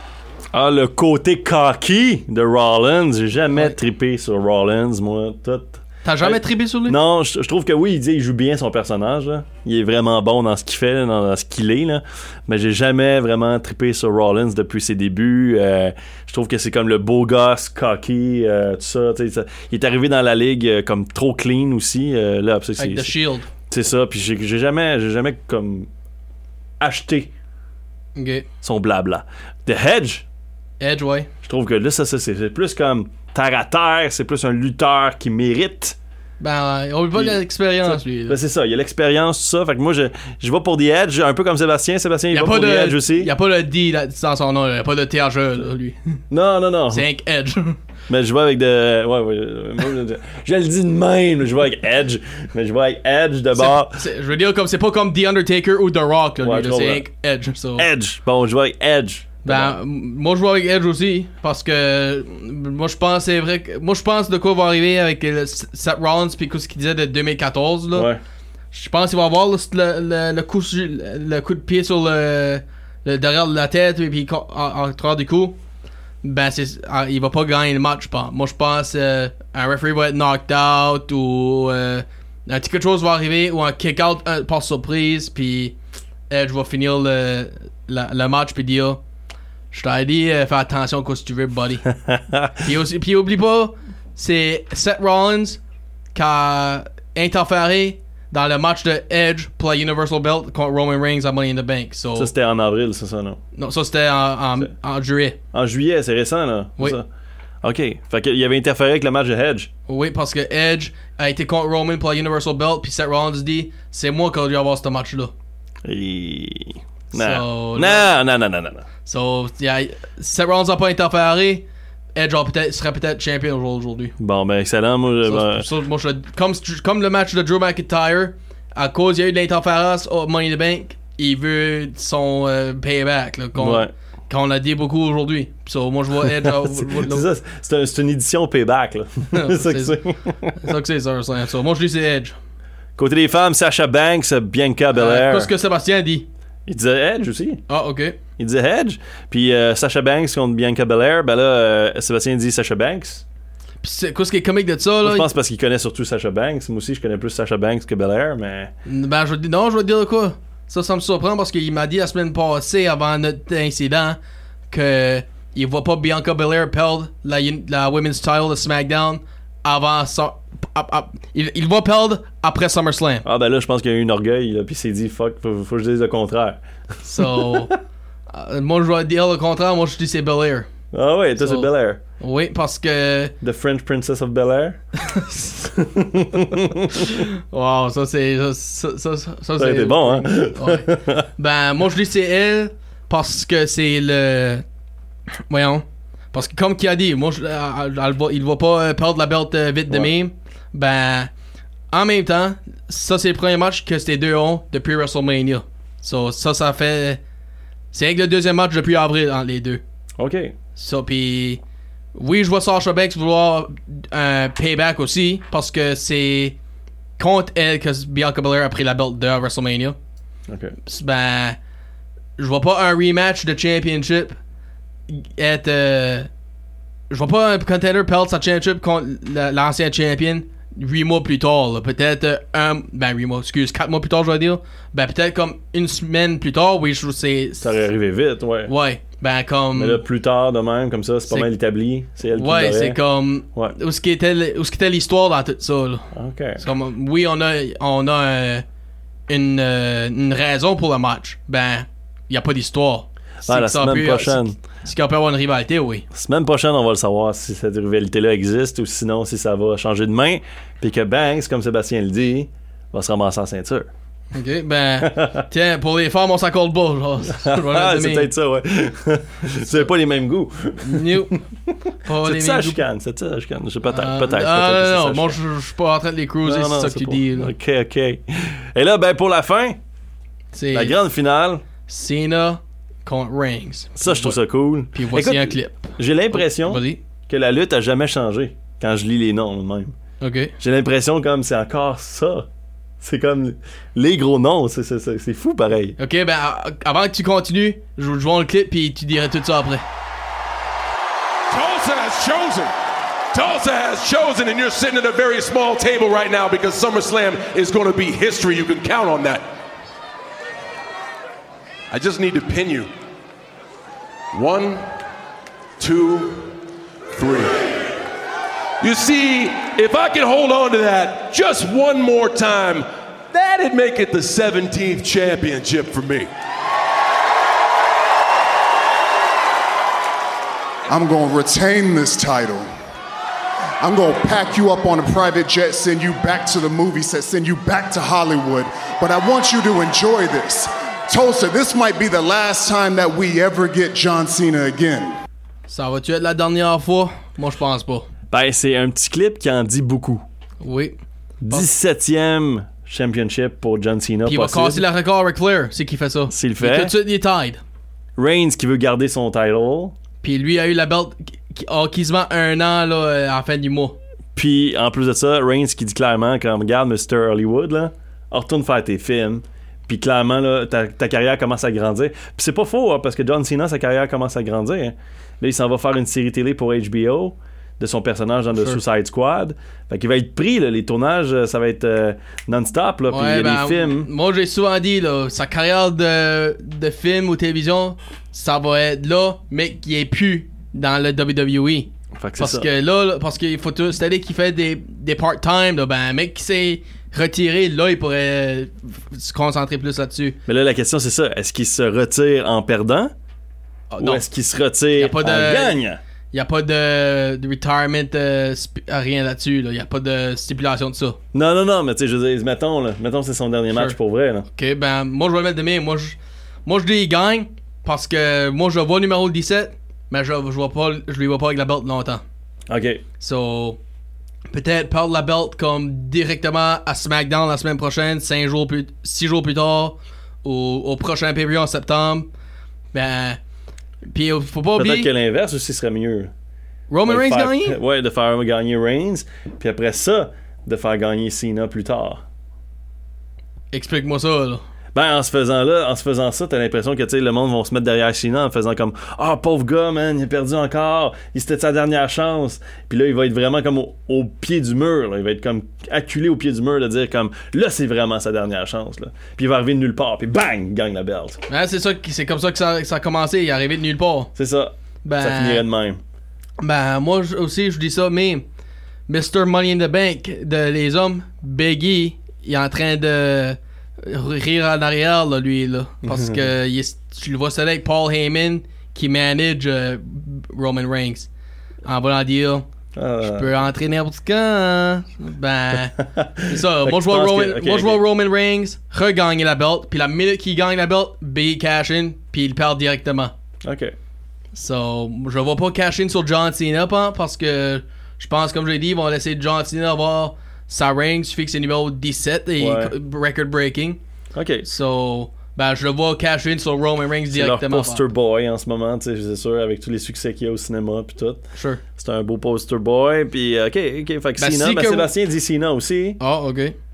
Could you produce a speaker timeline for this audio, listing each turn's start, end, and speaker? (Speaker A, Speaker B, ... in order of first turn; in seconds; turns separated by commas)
Speaker A: 0.5-23.1, Speaker B: 3.5-3.8, Speaker B: 6.0-7.0, Speaker B: 22.8-23.5, Speaker A: 23.7-25.9, Speaker A: 26.8-27.3, Speaker B: 28.1-28.4, Speaker A: 28.6-30.2, Speaker B: 30.8-31.3, Speaker A: 31.4-36.0, Speaker B: 36.4-38.4, Speaker A: 37.1-43.3, Speaker B: 42.3-46.1, Speaker A: 46.3-47.0, Speaker B: 46.9-47.8, Speaker A: 48.1-54.0, Speaker B: 53.6-57.9, Speaker A: 56.4-57.0, Speaker A: 57.8-59.8, Speaker B: 59.4-68.1, Speaker A: 67.9-68.2, Speaker B: 68.7-75.5, Speaker B: 76.2-85.7, Speaker B: 86.3-89.0, Speaker B: 89.7-91.9, Speaker A: 92.0-92.5, Speaker B: 92.6-95.6, Speaker B: 96.1-102.3, Speaker A: 102.2-103.4, Speaker B: 103.5-105.4, Speaker A: 105.5-107.0, Speaker A: 107.6-109.7, Speaker B: 109.9-115.3, Speaker A: 115.8-118.8, Speaker B: 117.1-118.1, Speaker B: 119.0-124.1, Speaker A: 124.2-125.6, Speaker B: 125.2-137.2, Speaker A: 133.6-133.9, Speaker A: 136.4-140.5, Speaker B: 139.3-140.0, Speaker B: 140.6-142.3, Speaker A: 143.0-145.5, Speaker B: 144.9-146.3, Speaker A: 146.7-147.6, Speaker B: 147.7-148.2, Speaker A: 148.4-153.2, Speaker B: 153.8-155.3, Speaker A: 155.0-158.7, Speaker B: 158.8-164.2, Speaker B: 164.7-173.2, Speaker A: 173.2-176.6, Speaker B: 177.0-177.7, Speaker A: 177.2-177.8, Speaker B: 178.3-180.7, Speaker A: 180.9-182.0, Speaker B: 181.4-181.7, Speaker B: 182.2-183.3, Speaker A: 183.4-184.8, Speaker B: 185.1-185.6, Speaker A: 185.7-187.0, Speaker B: 187.0-194.6, Speaker A: 189.6-191.3, Speaker B: 195.5-201.3, Speaker B: 201.9-207.2, Speaker B: 207.9-209.8, Speaker A: 210.2-210.5, Speaker B: 210.8-211.6, Speaker B: 212.1-216.6, Speaker B: 217.2-220.0, Speaker A: 220.5-220.7, Speaker B: 220.8-221.6, Speaker B: 222.4-224.4, Speaker B: 225.1-226.3, Speaker B: 227.1-237.7, Speaker A: 237.6-238.7, Speaker B: 238.7-240.0, Speaker A: 239.7-243.0, Speaker B: 242.3-246.1, Speaker A: 246.1-246.6, Speaker B: 246.6-248.6, Speaker B: 249.3-256.0, Speaker A: 253.4-254.6, Speaker A: 256.1-263.9, Speaker B: 264.3-268.3, Speaker A: 265.0-265.4, Speaker A: 267.3-271.4, Speaker B: 270.8-271.4, Speaker B: 272.0-272.8, Speaker A: 272.2-275.4, Speaker B: 273.9-277.5, Speaker A: 276.4-279.8, Speaker B: 280.5-280.9, Speaker A: 280.7-281.6, Speaker B: 281.9-284.4, Speaker A: 284.0-289.9, Speaker B: 284.9-287.0, Speaker B: 290.2-290.5, Speaker A: 290.6-292.5, Speaker A: 293.0-295.9, Speaker B: 296.0-299.8, Speaker C: 301.5-302.7, Speaker C: 303.3-309.4, Speaker C: 311.9-312.9, Speaker C: 314.3-314.8, Speaker C: 315.8-316.5, Speaker C: 317.1-317.6, Speaker C: 318.8-326.3, Speaker D: 330.9-332.7, Speaker D: 333.8-345.2, Speaker B: 345.7-348.1, Speaker A: 348.3-350.2, Speaker B: 350.6-351.0, Speaker A: 351.4-354.8, Speaker B: 354.2-357.6, Speaker A: 356.3-356.9, Speaker A: 358.2-359.9, Speaker B: 360.2-364.0, Speaker A: 364.3-384.1, Speaker B: 378.5-378.8, Speaker B: 383.1-400.4, Speaker A: 392.1-392.7, Speaker A: 400.4-403.1, Speaker B: 403.9-404.2, Speaker A: 404.0-406.0, Speaker B: 405.0-405.8, Speaker B: 406.3-411.2, Speaker A: 411.3-414.4, Speaker B: 414.5-422.2, Speaker A: 422.7-423.0, Speaker B: 423.2-423.8, Speaker B: 424.5-432.3, Speaker B: 432.9-433.4, Speaker B: 434.1-435.1, Speaker A: 434.8-436.3, Speaker B: 436.9-437.8, Speaker A: 437.1-442.2, Speaker B: 443.7-444.6, Speaker A: 444.9-461.4, Speaker B: 461.5-464.3, Speaker A: 464.4-466.0, Speaker B: 465.0-465.6, Speaker B: 466.6-468.4, Speaker B: 469.1-481.3, Speaker A: 476.1-476.4, Speaker B: 481.8-482.6, Speaker A: 482.9-483.5, Speaker B: 483.2-493.3, Speaker A: 486.0-488.0, Speaker A: 493.6-493.9, Speaker B: 494.5-504.0, Speaker A: 502.6-502.9, Speaker A: 504.3-504.7, Speaker B: 504.6-508.0, Speaker A: 507.3-511.4, Speaker B: 511.6-511.8, Speaker A: 511.9-516.2, Speaker B: 514.4-515.1, Speaker B: 516.2-516.8